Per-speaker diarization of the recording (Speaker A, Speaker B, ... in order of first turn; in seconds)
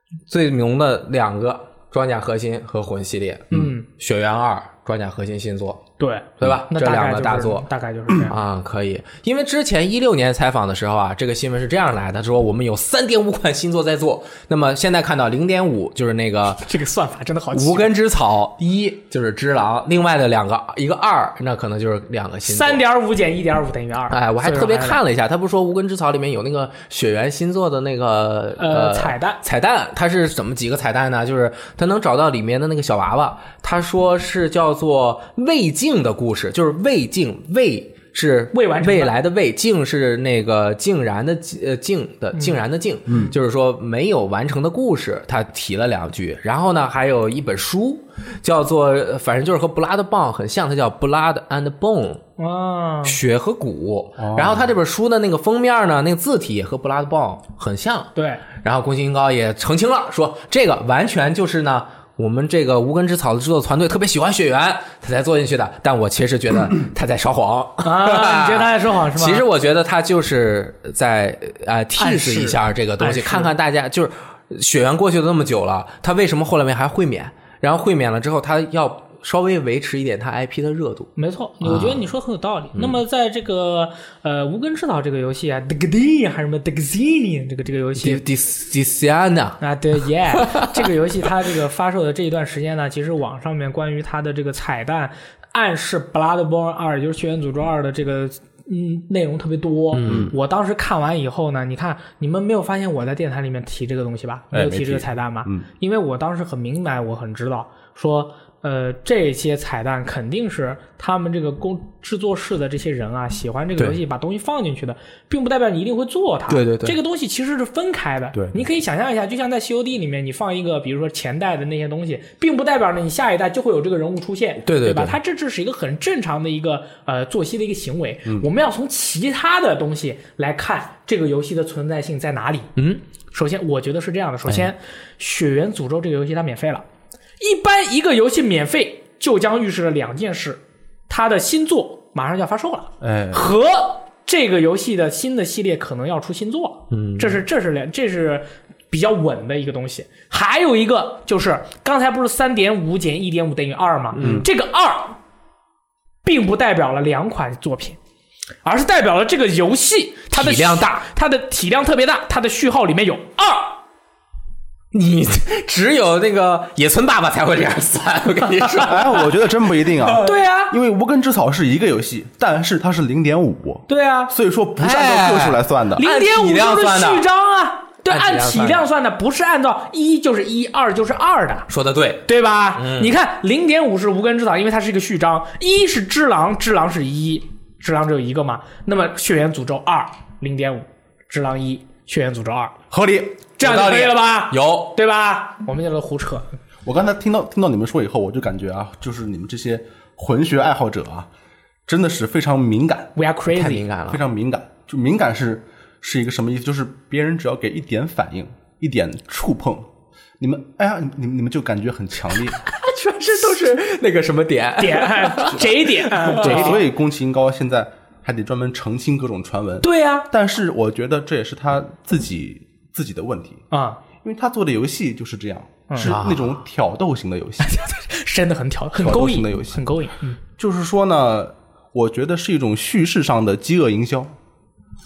Speaker A: 0.3-5.9, 6.4-7.7, 8.2-16.7, 17.5-22.8, 24.1-52.2, 53.0-81.1, 81.6-82.1, 82.7-83.0, 88.0-89.6, 90.3-90.9, 99.9-100.3, 116.5-117.0, 124.6-125.2, 132.8-133.0, 146.9-147.4, 154.1-154.4, 160.3-161.1, 164.9-169.3, 169.9-170.3, 174.8-177.2, 178.1-178.9, 181.7-183.1, 193.6-194.9, 203.5-204.2, 212.6-216.8, 226.0-226.5
Speaker B: 3.5-3.9, 6.0-8.3, 16.6-17.9, 22.4-25.0, 28.6-29.4, 38.5-39.1, 42.3-42.6, 52.4-53.2, 58.1-58.5, 67.8-69.4, 72.0-73.5, 81.2-88.2, 89.6-132.7, 133.3-136.8, 137.4-155.2, 156.2-158.0, 158.6-163.8, 170.2-170.8, 173.9-174.3, 176.0-181.7, 182.3-192.8, 193.6-196.5, 203.2-203.8, 214.8-216.9, 219.8-220.3, 223.7-224.0, 225.9-226.2, 227.6-230.4
Speaker C: 43.1-43.3, 54.2-54.7, 100.1-100.3, 104.5-105.7, 118.3-118.6, 143.0-143.4, 154.2-154.5, 168.7-176.1, 192.9-193.4, 196.8-201.3, 201.9-203.1, 204.1-209.9, 210.4-212.6, 216.3-223.6, 224.2-227.8, 229.0-229.8, 230.6-234.3